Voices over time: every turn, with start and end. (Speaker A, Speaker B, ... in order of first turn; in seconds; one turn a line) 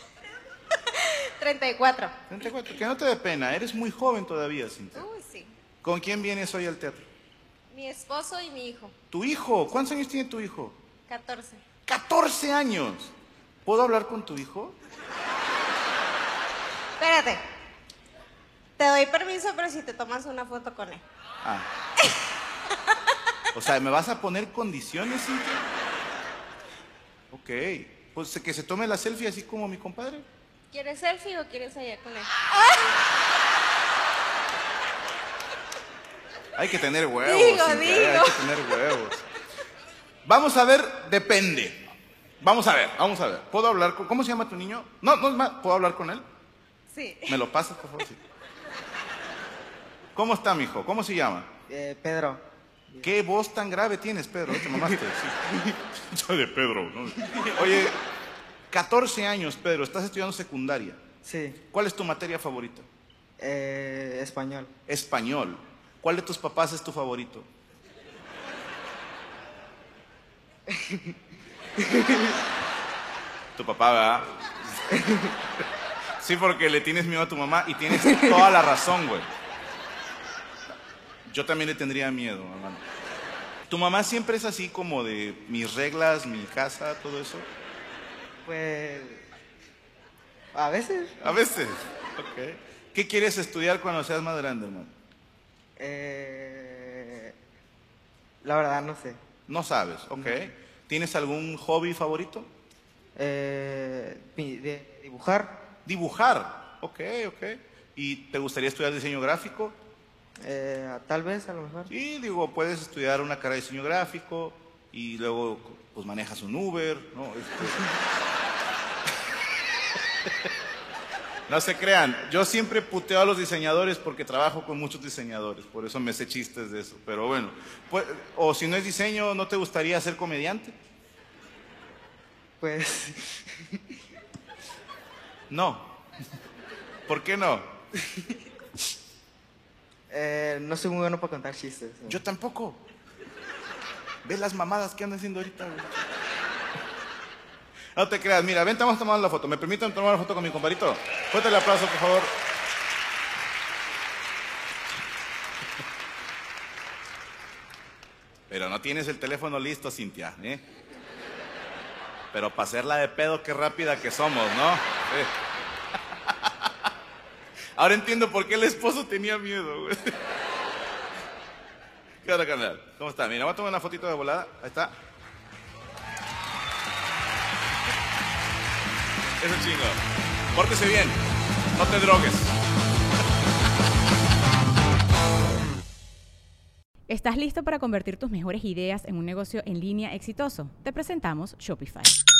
Speaker A: 0.9-2.1
Speaker B: 2.3-5.0
Speaker A: 4.9-5.5
Speaker B: 5.8-7.0
Speaker A: 7.7-8.9
Speaker B: 9.1-10.8
Speaker A: 11.1-11.6
Speaker B: 11.8-13.1
Speaker B: 13.6-14.8
Speaker A: 17.0-17.4
Speaker A: 18.8-21.0
Speaker B: 23.5-25.6
Speaker B: 27.3-30.2
Speaker A: 30.7-32.8
Speaker B: 36.5-39.2
Speaker A: 37.2-38.4
Speaker B: 40.2-41.9
Speaker B: 42.4-46.2
Speaker A: 46.9-47.4
Speaker B: 47.3-48.2
Speaker B: 50.1-51.5
Speaker C: 51.7-53.1
Speaker B: 53.0-55.3
Speaker B: 55.9-58.0
Speaker B: 58.7-61.0
Speaker C: 61.2-61.6
Speaker B: 61.7-62.9
Speaker C: 63.4-64.7
Speaker B: 64.9-67.5
Speaker C: 70.7-71.1
Speaker C: 71.8-72.3
Speaker B: 73.5-74.8
Speaker C: 74.9-75.3
Speaker B: 76.2-79.3
Speaker B: 81.2-82.8
Speaker B: 83.7-87.5
Speaker C: 88.4-89.2
Speaker C: 90.5-91.2
Speaker B: 91.2-94.9
Speaker C: 95.8-97.3
Speaker C: 98.4-99.2
Speaker B: 99.5-102.5
Speaker C: 103.2-105.6
Speaker B: 105.8-109.8
Speaker C: 110.4-111.9
Speaker B: 111.9-117.8
Speaker B: 121.5-130.7
Speaker C: 132.6-133.6
Speaker B: 135.5-135.9
Speaker B: 137.1-137.7
Speaker C: 140.1-142.2
Speaker B: 142.1-142.8
Speaker B: 144.2-145.9
Speaker B: 147.9-152.3
Speaker B: 158.5-160.6
Speaker B: 162.3-165.3
Speaker B: 166.3-166.7
Speaker B: 167.8-170.2
Speaker B: 172.2-174.9
Speaker B: 179.4-180.0
Speaker B: 180.5-181.2
Speaker B: 181.7-182.6
Speaker D: 187.1-192.1